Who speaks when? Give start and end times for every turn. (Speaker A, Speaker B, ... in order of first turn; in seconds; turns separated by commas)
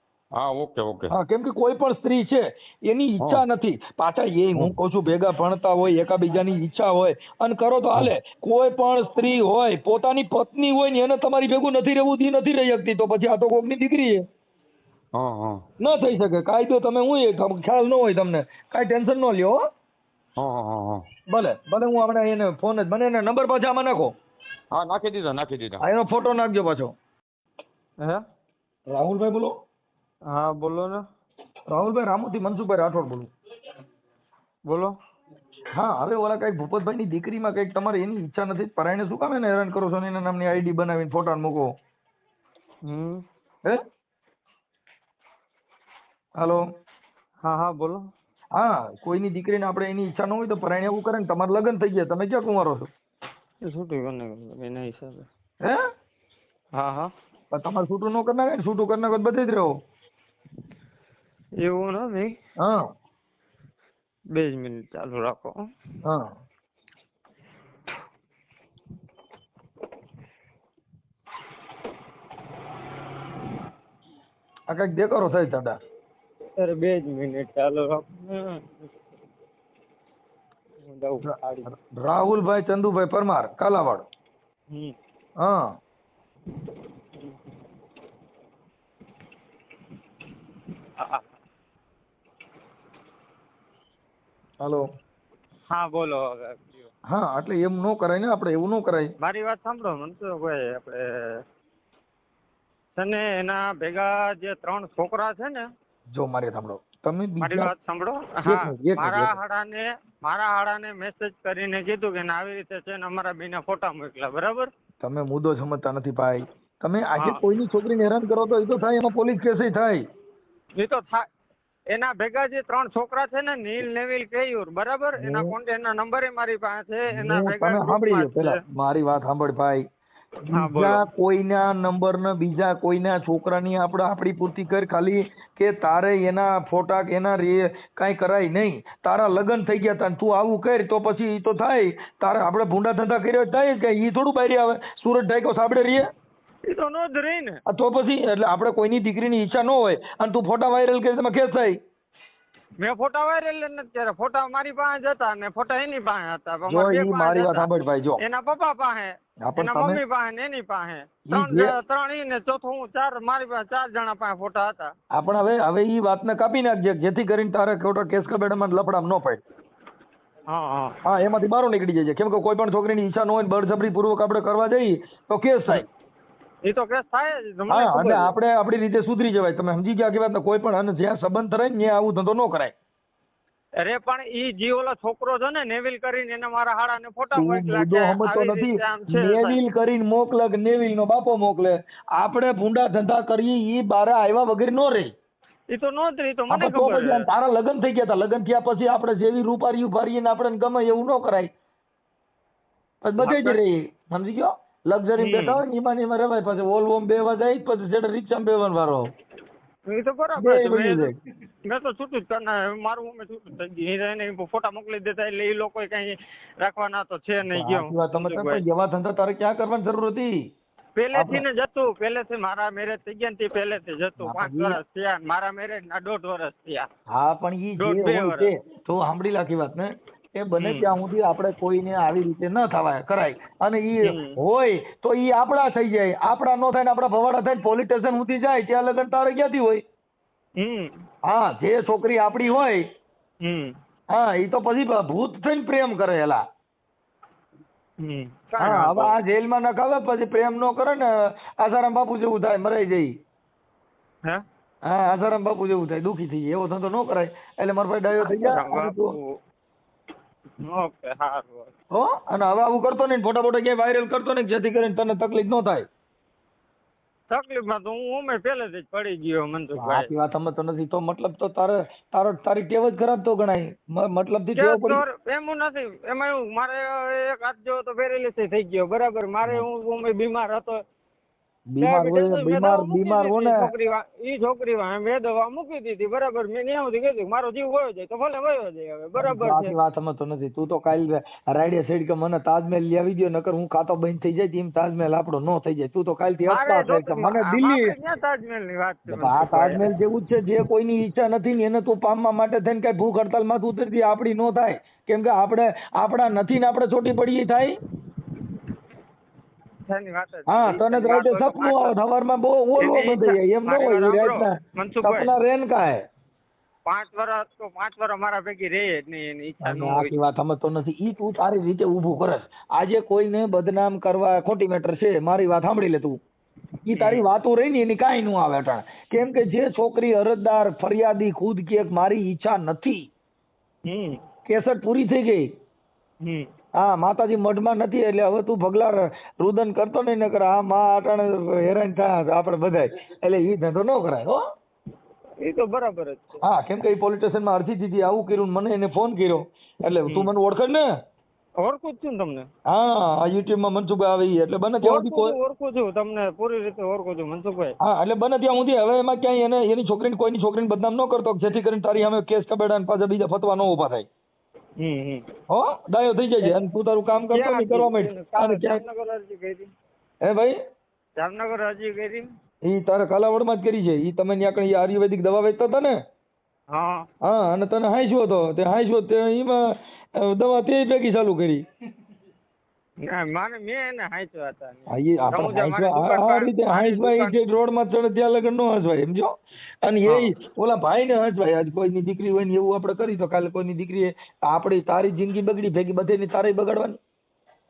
Speaker A: 0.4-1.1, Speaker B: 1.1-14.2, Speaker A: 15.2-15.6, Speaker B: 15.8-19.6, Speaker A: 20.4-21.1, Speaker B: 21.3-24.1, Speaker A: 24.7-25.8, Speaker B: 25.8-26.9, Speaker B: 28.9-29.5, Speaker C: 30.3-31.1, Speaker B: 31.7-33.3, Speaker C: 34.7-34.9, Speaker B: 35.8-41.7, Speaker C: 42.9-43.2, Speaker B: 46.4-46.6, Speaker C: 47.4-48.1, Speaker B: 48.5-52.9, Speaker C: 53.6-55.3, Speaker C: 56.7-57.1, Speaker B: 57.5-59.7, Speaker C: 61.6-62.4, Speaker B: 62.6-62.9, Speaker C: 64.3-65.6, Speaker B: 66.0-66.3, Speaker B: 74.7-75.8, Speaker C: 76.6-78.9, Speaker C: 80.8-81.7, Speaker B: 81.2-84.0, Speaker C: 84.7-85.0, Speaker B: 85.4-85.8, Speaker C: 91.0-91.3, Speaker C: 95.7-96.9, Speaker B: 97.1-99.1, Speaker C: 99.2-101.4, Speaker C: 103.0-105.7, Speaker B: 106.1-107.7, Speaker C: 107.4-114.7, Speaker B: 108.4-109.4, Speaker B: 115.0-120.0, Speaker C: 120.8-121.3, Speaker C: 121.9-128.6, Speaker B: 125.2-125.5, Speaker B: 127.1-129.8, Speaker B: 130.5-146.1, Speaker C: 130.5-131.0, Speaker C: 146.7-147.6, Speaker B: 147.7-151.8, Speaker C: 152.8-157.7, Speaker B: 156.7-158.2, Speaker C: 158.2-164.9, Speaker B: 159.5-160.0, Speaker B: 161.3-161.8, Speaker B: 165.1-169.4, Speaker C: 170.5-171.0, Speaker B: 171.1-175.9, Speaker C: 176.6-178.3, Speaker B: 177.7-182.7, Speaker C: 183.8-189.6, Speaker B: 187.3-195.1, Speaker C: 195.7-197.2, Speaker B: 196.5-201.5, Speaker B: 203.0-209.1, Speaker C: 203.2-203.6, Speaker C: 205.2-205.6, Speaker C: 209.9-211.1, Speaker B: 210.4-211.2, Speaker C: 211.7-218.6, Speaker B: 217.5-220.5, Speaker C: 221.0-226.9, Speaker B: 221.1-221.4, Speaker B: 224.2-224.8, Speaker B: 227.1-239.8, Speaker C: 227.8-228.5, Speaker C: 230.6-230.9, Speaker C: 234.1-234.4, Speaker C: 240.6-241.0, Speaker B: 241.3-242.8, Speaker C: 243.4-243.8, Speaker B: 244.1-246.4, Speaker C: 248.0-249.2, Speaker B: 248.6-253.1, Speaker B: 254.8-259.2, Speaker C: 258.2-259.4, Speaker C: 260.6-261.7, Speaker B: 261.9-265.9, Speaker C: 267.3-270.1, Speaker B: 269.8-275.0, Speaker C: 274.6-280.8, Speaker B: 281.7-283.7, Speaker C: 281.8-289.7, Speaker B: 289.2-297.9, Speaker C: 296.5-299.9, Speaker B: 299.1-307.8, Speaker C: 309.9-311.9, Speaker B: 310.5-316.0, Speaker C: 312.8-315.3, Speaker C: 316.9-320.1, Speaker B: 319.6-326.2, Speaker B: 326.9-333.1, Speaker C: 326.9-327.2, Speaker C: 333.9-334.2, Speaker B: 334.5-335.5, Speaker C: 336.2-336.5, Speaker B: 336.8-344.4, Speaker C: 345.4-346.4, Speaker B: 346.4-350.9, Speaker C: 351.6-352.5, Speaker B: 352.7-355.4, Speaker C: 354.8-357.8, Speaker B: 357.8-364.1, Speaker C: 364.8-365.3, Speaker B: 365.5-368.8, Speaker C: 367.3-369.7, Speaker B: 370.2-370.6, Speaker C: 371.2-372.3, Speaker B: 372.6-375.9, Speaker C: 376.7-377.1, Speaker B: 377.2-379.6, Speaker B: 380.2-381.6, Speaker C: 383.0-387.4, Speaker B: 384.9-397.0, Speaker C: 390.1-390.3